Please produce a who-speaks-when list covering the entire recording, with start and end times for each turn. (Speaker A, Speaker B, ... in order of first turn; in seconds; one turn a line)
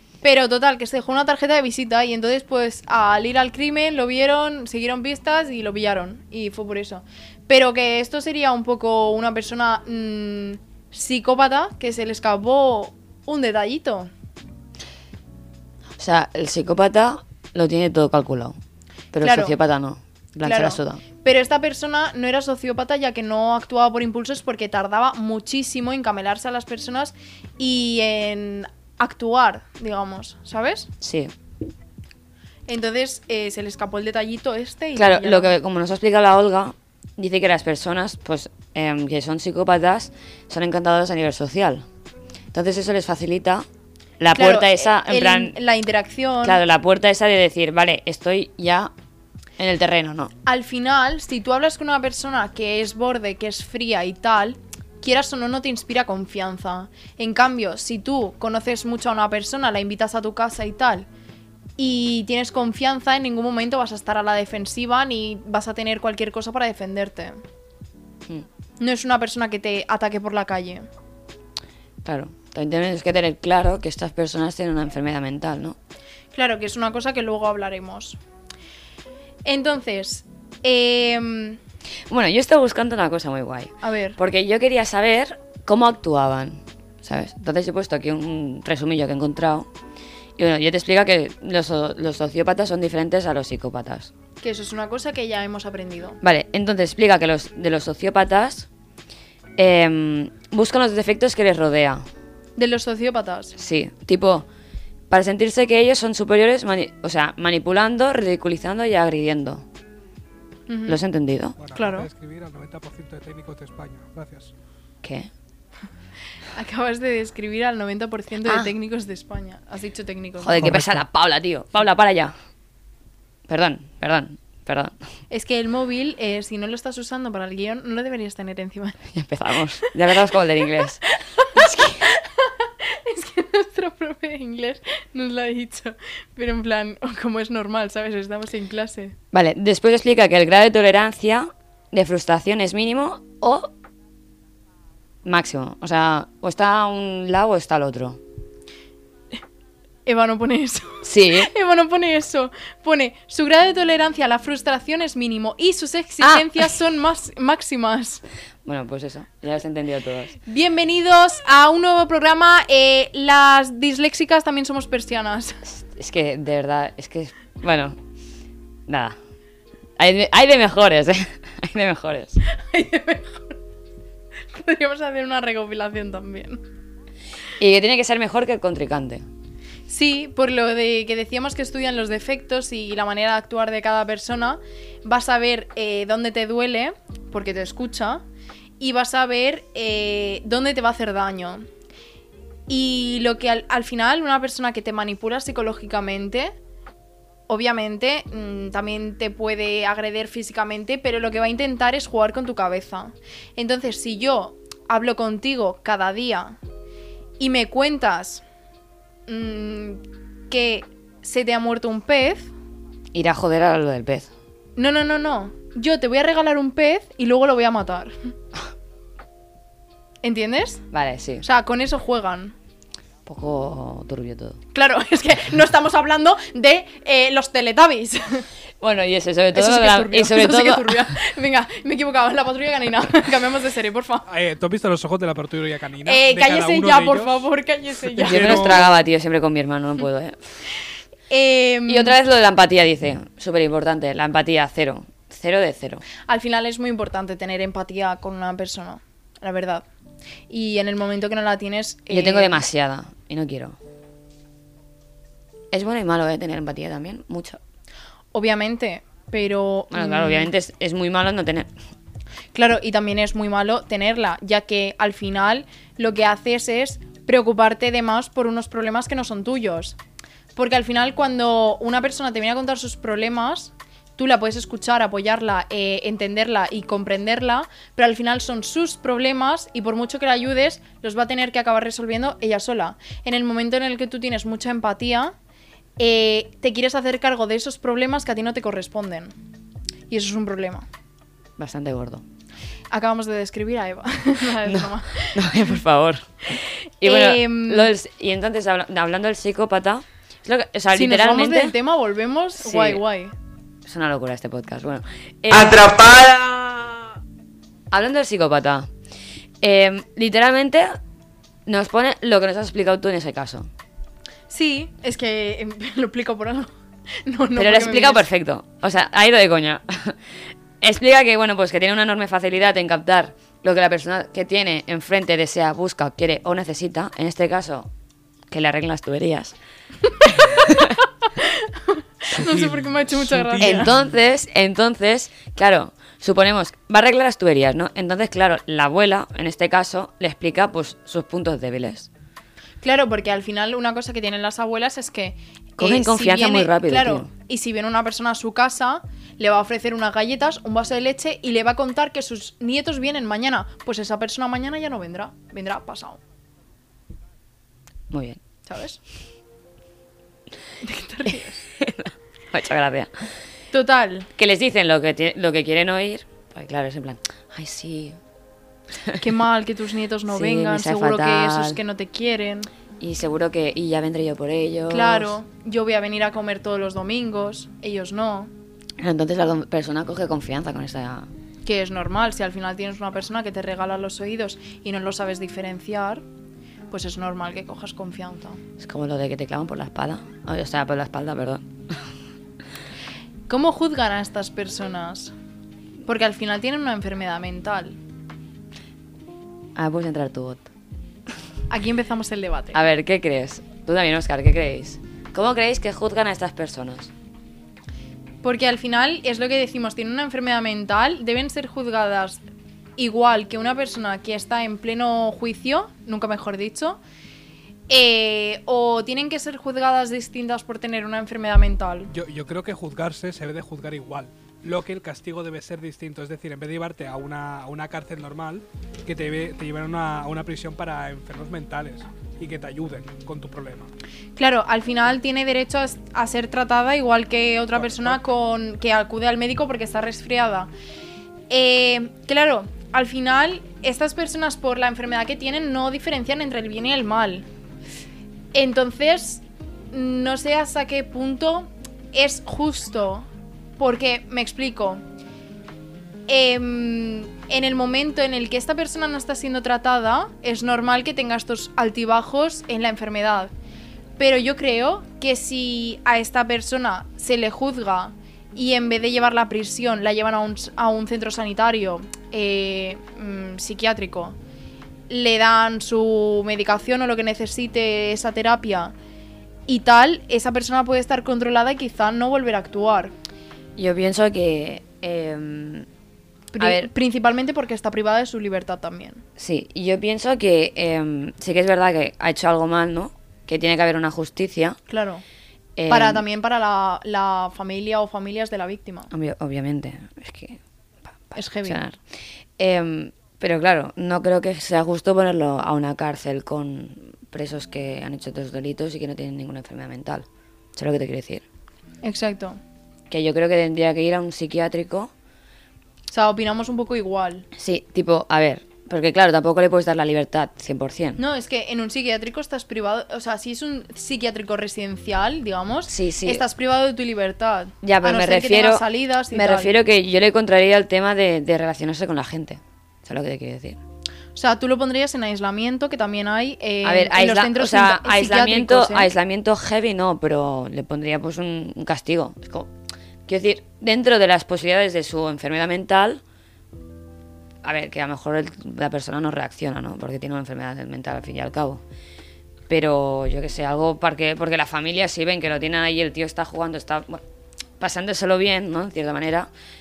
Speaker A: 0.2-14.1
Speaker B: 16.0-18.6
Speaker B: 19.1-21.0
Speaker A: 19.2-19.5
Speaker A: 20.4-30.9
Speaker B: 31.0-31.3
Speaker A: 32.7-35.5
Speaker B: 35.0-41.8
Speaker B: 42.5-43.6
Speaker B: 44.2-45.5
Speaker A: 44.3-46.6
Speaker B: 46.4-48.9
Speaker B: 49.6-50.3
Speaker A: 50.5-61.1
Speaker A: 61.8-67.4
Speaker A: 68.8-70.9
Speaker B: 72.0-75.8
Speaker A: 76.3-78.2
Speaker A: 79.4-81.6
Speaker B: 82.1-89.7
Speaker A: 83.8-84.2
Speaker B: 90.4-94.1
Speaker A: 94.4-96.2
Speaker B: 96.2-98.7
Speaker B: 99.6-102.0
Speaker A: 102.6-103.5
Speaker B: 103.6-104.5
Speaker B: 105.1-109.6
Speaker A: 110.7-111.0
Speaker B: 110.9-111.6
Speaker C: 111.6-114.5
Speaker A: 111.7-112.1
Speaker B: 115.0-115.3
Speaker A: 116.5-120.7
Speaker B: 118.4-118.7
Speaker B: 120.4-122.3
Speaker C: 120.6-121.0
Speaker B: 123.5-124.9
Speaker A: 125.3-129.0
Speaker B: 129.1-131.0
Speaker A: 131.1-139.1
Speaker B: 131.5-132.1
Speaker B: 139.3-143.7
Speaker B: 145.2-148.2
Speaker A: 150.1-158.2
Speaker B: 151.0-151.5
Speaker B: 156.2-156.7
Speaker B: 158.7-160.4
Speaker A: 160.5-165.6
Speaker B: 165.7-167.9
Speaker B: 168.9-169.2
Speaker B: 170.0-172.4
Speaker A: 172.5-173.6
Speaker A: 174.5-176.6
Speaker B: 177.6-179.2
Speaker A: 179.9-188.2
Speaker A: 188.8-191.6
Speaker A: 192.7-196.5
Speaker A: 197.5-206.6
Speaker A: 207.4-208.4
Speaker A: 209.3-212.5
Speaker B: 213.1-214.3
Speaker A: 214.8-218.3
Speaker A: 220.2-220.8
Speaker B: 220.9-221.4
Speaker A: 221.4-222.5
Speaker B: 223.2-224.6
Speaker A: 224.7-228.4
Speaker B: 228.8-231.1
Speaker A: 229.5-234.2
Speaker C: 234.3-237.4
Speaker A: 236.1-238.8
Speaker C: 238.1-238.9
Speaker B: 238.2-240.6
Speaker A: 241.3-242.2
Speaker B: 241.9-246.0
Speaker A: 246.3-249.8
Speaker A: 250.5-252.6
Speaker B: 252.1-253.8
Speaker B: 255.7-257.6
Speaker A: 258.3-260.5
Speaker B: 259.9-261.7
Speaker A: 262.5-270.0
Speaker A: 270.5-285.3
Speaker A: 286.0-289.3
Speaker A: 290.1-290.9
Speaker B: 291.6-292.2
Speaker A: 292.9-295.5
Speaker B: 294.6-301.7
Speaker A: 297.0-297.9
Speaker A: 300.9-303.3
Speaker B: 302.6-303.0
Speaker B: 303.9-307.0
Speaker B: 307.9-308.9
Speaker B: 309.6-311.0
Speaker B: 311.6-313.7
Speaker A: 314.5-316.7
Speaker A: 317.2-318.2
Speaker B: 317.6-320.2
Speaker B: 320.8-327.9
Speaker B: 328.5-329.5
Speaker B: 330.3-331.0
Speaker A: 331.4-333.9
Speaker C: 332.3-334.0
Speaker B: 333.6-342.1
Speaker A: 342.8-356.2
Speaker B: 345.8-347.3
Speaker B: 358.1-358.4
Speaker A: 358.7-359.0
Speaker A: 360.8-361.6
Speaker B: 361.8-363.1
Speaker A: 363.7-364.3
Speaker B: 364.4-368.2
Speaker A: 369.2-372.7
Speaker B: 370.3-371.8
Speaker B: 373.0-375.4
Speaker A: 374.9-378.5
Speaker B: 379.0-381.3
Speaker A: 381.6-386.2
Speaker A: 386.9-388.6
Speaker B: 388.8-392.1
Speaker A: 393.5-395.3
Speaker A: 396.0-398.0
Speaker B: 399.8-400.7
Speaker A: 401.7-402.8
Speaker B: 402.7-407.1
Speaker A: 408.4-412.4
Speaker A: 413.0-417.0
Speaker A: 417.9-422.1
Speaker C: 422.1-433.9
Speaker A: 434.4-440.7
Speaker C: 437.8-438.2
Speaker A: 441.5-447.4
Speaker A: 448.5-453.3
Speaker A: 453.8-455.0
Speaker A: 456.3-463.5
Speaker A: 464.2-474.4
Speaker A: 475.1-478.9
Speaker A: 479.7-483.1
Speaker B: 483.8-485.9
Speaker A: 486.5-489.2
Speaker B: 486.6-486.9
Speaker B: 489.4-494.8
Speaker A: 494.9-495.2
Speaker B: 495.8-496.2
Speaker A: 495.9-499.1
Speaker B: 499.1-500.6
Speaker B: 501.3-502.0
Speaker A: 501.3-501.8
Speaker B: 502.6-511.4
Speaker A: 512.0-512.6
Speaker B: 513.1-515.1
Speaker A: 516.1-517.5
Speaker B: 517.5-521.2
Speaker A: 521.2-529.7
Speaker B: 525.9-526.4
Speaker B: 527.8-533.8
Speaker A: 534.3-539.1
Speaker B: 536.8-542.7
Speaker B: 543.3-546.2
Speaker B: 547.6-551.8
Speaker B: 552.7-557.2
Speaker B: 557.8-559.5